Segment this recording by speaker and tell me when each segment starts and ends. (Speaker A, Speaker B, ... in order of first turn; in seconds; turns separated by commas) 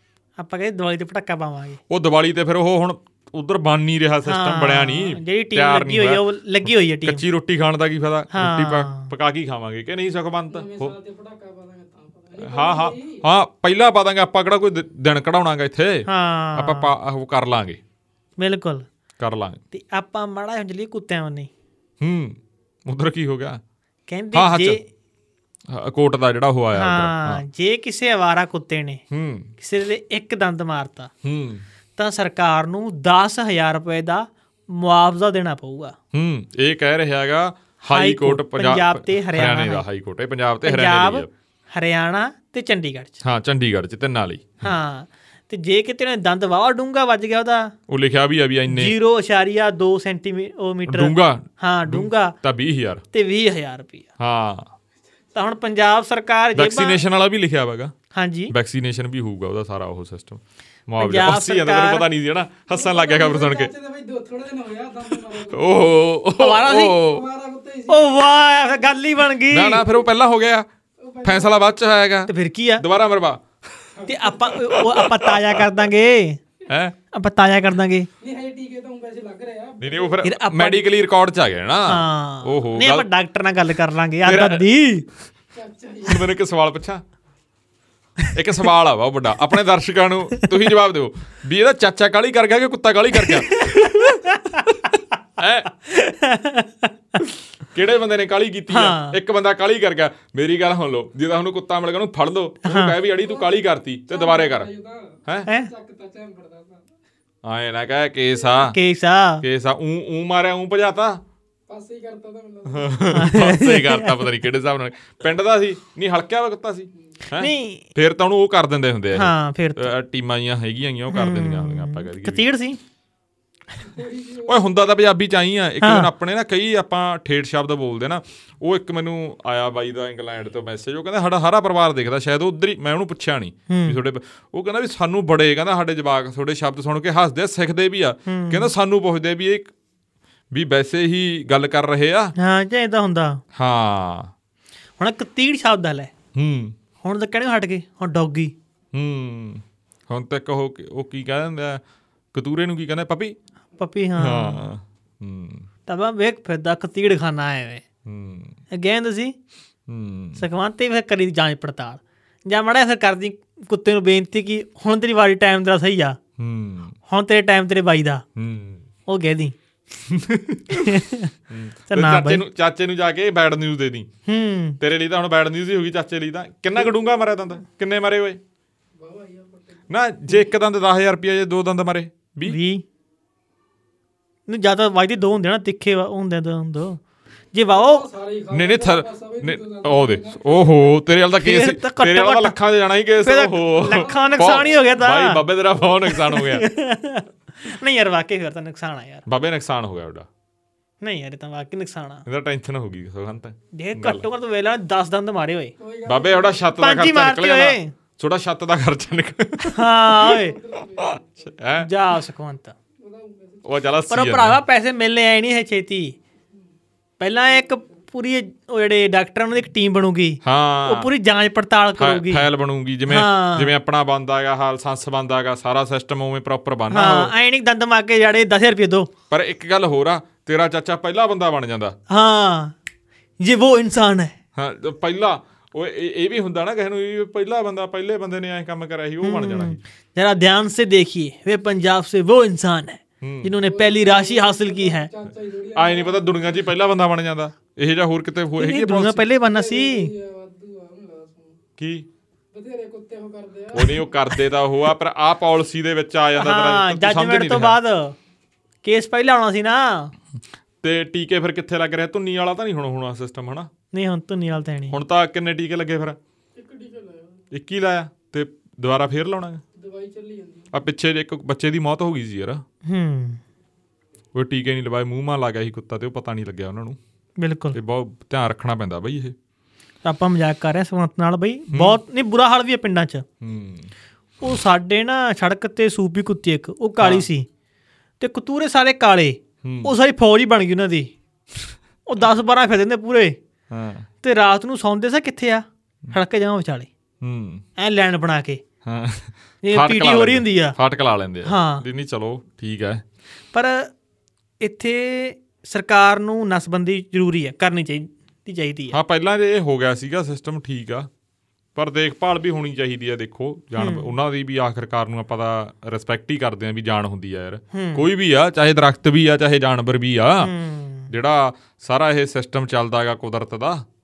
Speaker A: 0.4-1.8, Speaker B: 1.9-10.9, Speaker A: 4.2-7.2, Speaker A: 8.3-9.1, Speaker C: 10.5-13.2, Speaker B: 12.4-17.8, Speaker A: 16.1-16.9, Speaker A: 18.4-18.9, Speaker B: 19.2-19.6, Speaker A: 19.7-21.5, Speaker B: 22.0-23.6, Speaker A: 24.1-24.8, Speaker B: 24.3-24.8, Speaker B: 25.7-27.4, Speaker A: 26.8-29.0, Speaker B: 29.1-29.5, Speaker A: 29.6-31.1, Speaker B: 31.2-31.6, Speaker A: 32.0-36.0, Speaker B: 36.1-41.3, Speaker A: 37.9-39.9, Speaker A: 40.6-43.2, Speaker B: 43.2-44.7, Speaker A: 44.6-47.7, Speaker B: 47.9-49.0, Speaker A: 48.7-52.4, Speaker B: 50.9-53.0, Speaker A: 53.1-54.1, Speaker B: 54.2-54.7, Speaker A: 55.4-57.0, Speaker B: 56.5-57.9, Speaker A: 58.1-58.5, Speaker B: 58.5-63.7, Speaker A: 61.0-62.1, Speaker C: 62.7-65.9, Speaker B: 65.1-67.2, Speaker A: 66.4-67.0, Speaker C: 66.7-68.3, Speaker A: 67.9-69.9, Speaker B: 69.5-70.7, Speaker C: 71.0-71.6, Speaker B: 71.2-73.9, Speaker A: 72.3-72.8, Speaker C: 74.0-74.5, Speaker A: 74.1-76.4, Speaker B: 74.5-75.7, Speaker B: 76.7-77.0, Speaker A: 77.1-78.1, Speaker C: 78.2-80.2, Speaker B: 79.8-83.1, Speaker A: 80.2-80.8, Speaker A: 81.9-85.1, Speaker B: 84.2-84.7, Speaker C: 85.5-86.3, Speaker B: 86.0-87.0, Speaker B: 88.3-94.7, Speaker A: 93.2-94.8, Speaker B: 95.4-95.7, Speaker A: 95.8-97.2, Speaker B: 97.7-104.7, Speaker A: 98.7-99.2, Speaker A: 102.6-103.0, Speaker C: 103.1-106.9, Speaker B: 107.4-108.8, Speaker A: 108.6-109.4, Speaker B: 109.4-111.2, Speaker C: 111.7-113.2, Speaker B: 112.7-122.4, Speaker A: 113.1-114.3, Speaker A: 117.4-117.9, Speaker A: 119.2-119.9, Speaker A: 121.1-122.8, Speaker C: 123.8-124.7, Speaker B: 124.5-139.7, Speaker A: 125.8-126.1, Speaker A: 133.7-134.0, Speaker A: 138.3-138.7, Speaker B: 140.5-142.3, Speaker A: 142.4-143.4, Speaker B: 143.5-144.3, Speaker A: 145.0-146.1, Speaker B: 146.3-146.8, Speaker A: 147.0-148.5, Speaker B: 148.9-151.8, Speaker B: 152.3-153.4, Speaker A: 153.8-154.7, Speaker B: 154.2-155.7, Speaker A: 155.9-157.8, Speaker B: 158.1-158.6, Speaker A: 158.7-159.3, Speaker B: 159.9-160.4, Speaker A: 160.4-166.2, Speaker B: 166.4-167.0, Speaker A: 167.1-168.2, Speaker B: 168.4-168.8, Speaker A: 169.1-169.6, Speaker B: 170.0-174.1, Speaker A: 170.7-171.3, Speaker A: 171.9-172.4, Speaker A: 174.3-174.8, Speaker B: 174.8-178.4, Speaker C: 179.0-179.8, Speaker B: 179.9-182.6, Speaker A: 182.5-182.8, Speaker A: 184.5-187.0, Speaker A: 187.5-188.1, Speaker C: 187.7-190.9, Speaker B: 188.5-196.7, Speaker A: 191.4-192.6, Speaker A: 193.2-195.4, Speaker C: 193.8-195.0, Speaker A: 196.1-199.2, Speaker B: 199.3-200.3, Speaker A: 201.0-202.2, Speaker B: 202.3-204.2, Speaker A: 203.7-205.7, Speaker C: 205.8-206.8, Speaker B: 206.1-210.4, Speaker A: 206.8-207.9, Speaker A: 209.7-210.6, Speaker C: 210.2-211.6, Speaker B: 211.0-211.9, Speaker A: 211.8-212.8, Speaker C: 213.0-213.8, Speaker B: 213.7-214.6, Speaker A: 214.1-216.2, Speaker A: 217.2-222.5, Speaker C: 217.4-217.9, Speaker B: 220.4-221.1, Speaker B: 222.0-227.3, Speaker A: 223.1-223.7, Speaker A: 226.9-229.1, Speaker B: 229.3-232.0, Speaker A: 232.1-232.8, Speaker A: 233.4-234.3, Speaker B: 234.6-239.8, Speaker A: 239.2-245.1, Speaker B: 243.2-243.5, Speaker C: 243.6-246.7, Speaker B: 245.8-249.2, Speaker A: 248.6-250.1, Speaker C: 249.4-251.6, Speaker B: 251.8-252.1, Speaker C: 252.5-254.2, Speaker B: 253.7-257.8, Speaker A: 256.4-258.2, Speaker A: 258.8-260.1, Speaker B: 260.8-263.7, Speaker A: 263.9-265.0, Speaker B: 264.9-266.2, Speaker C: 266.6-267.4, Speaker B: 267.5-269.6, Speaker C: 269.8-270.7, Speaker B: 270.7-272.6, Speaker A: 272.9-273.4, Speaker B: 274.3-277.0, Speaker A: 277.4-277.8, Speaker B: 277.7-279.4, Speaker A: 280.1-283.2, Speaker B: 281.7-282.0, Speaker B: 283.4-283.9, Speaker A: 284.4-287.5, Speaker B: 287.0-287.3, Speaker A: 288.2-291.1, Speaker B: 289.6-289.9, Speaker A: 292.1-293.4, Speaker B: 293.7-294.1, Speaker A: 294.2-296.9, Speaker B: 297.2-297.7, Speaker A: 297.8-298.6, Speaker B: 298.8-303.0, Speaker A: 299.6-300.8, Speaker A: 301.4-301.8, Speaker A: 303.5-303.9, Speaker A: 304.6-309.0, Speaker B: 308.9-311.1, Speaker B: 311.8-320.5, Speaker A: 313.8-314.1, Speaker A: 317.7-318.1, Speaker A: 320.4-321.1, Speaker B: 321.1-323.9